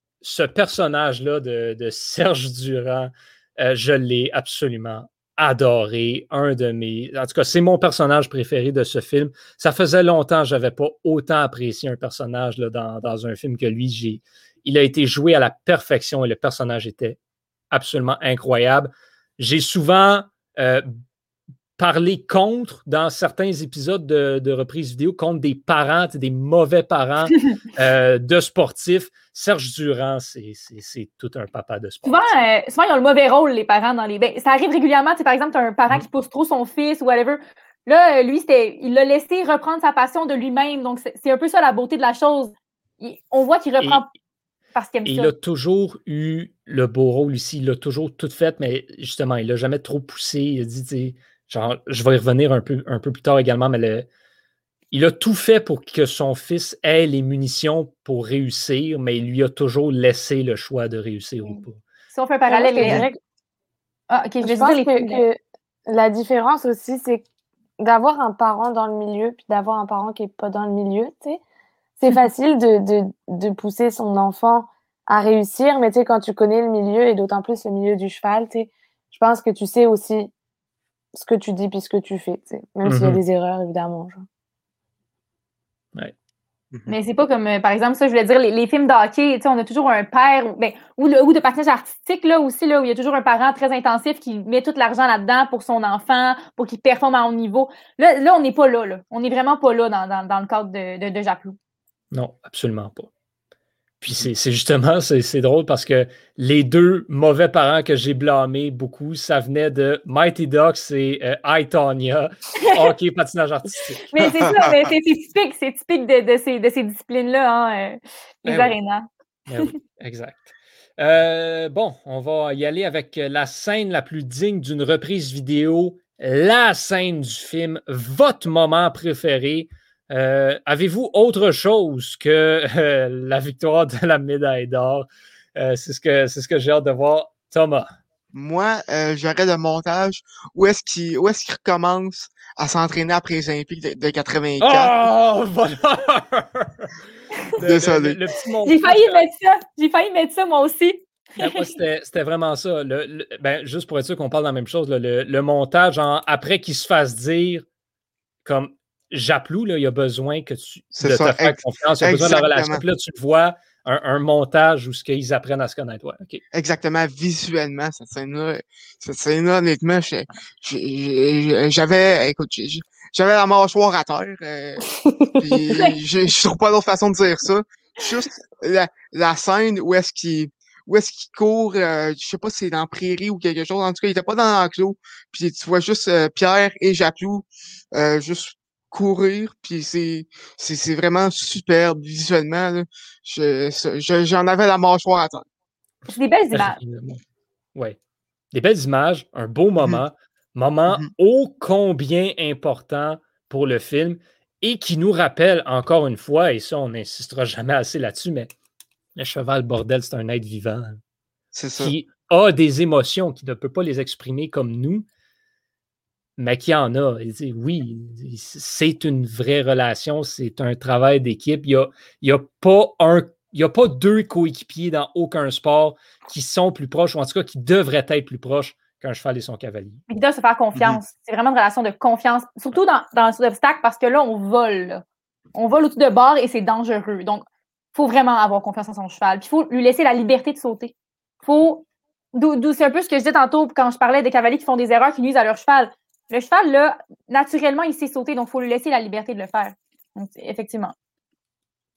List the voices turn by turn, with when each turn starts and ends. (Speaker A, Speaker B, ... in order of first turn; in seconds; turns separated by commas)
Speaker A: 0.2-17.2, Speaker A: 17.7-20.9, Speaker A: 21.8-32.3, Speaker B: 32.0-44.1, Speaker B: 44.8-45.3, Speaker A: 45.1-54.1, Speaker A: 54.9-61.8, Speaker B: 62.1-63.0, Speaker C: 62.5-63.2, Speaker B: 64.1-65.2, Speaker C: 64.4-67.2, Speaker C: 67.8-71.4, Speaker C: 72.0-80.3, Speaker C: 81.1-84.2, Speaker A: 82.8-83.2, Speaker B: 86.9-101.6, Speaker A: 102.1-103.1, Speaker A: 104.0-114.1, Speaker B: 114.1-119.7, Speaker A: 118.5-118.8, Speaker A: 119.5-137.9, Speaker D: 138.3-144.9, Speaker A: 144.6-146.9, Speaker A: 147.6-149.2, Speaker D: 147.6-148.2, Speaker B: 148.6-151.7, Speaker A: 151.4-157.7, Speaker A: 158.4-166.4, Speaker D: 161.0-162.8, Speaker D: 166.5-195.4, Speaker C: 174.9-175.4, Speaker B: 196.1-196.8, Speaker A: 196.5-197.2, Speaker A: 198.5-208.5, Speaker A: 209.2-211.0, Speaker D: 211.5-211.9, Speaker A: 211.8-215.1, Speaker A: 216.4-230.0, Speaker B: 230.1-235.0, Speaker B: 235.6-237.4, Speaker B: 237.9-250.9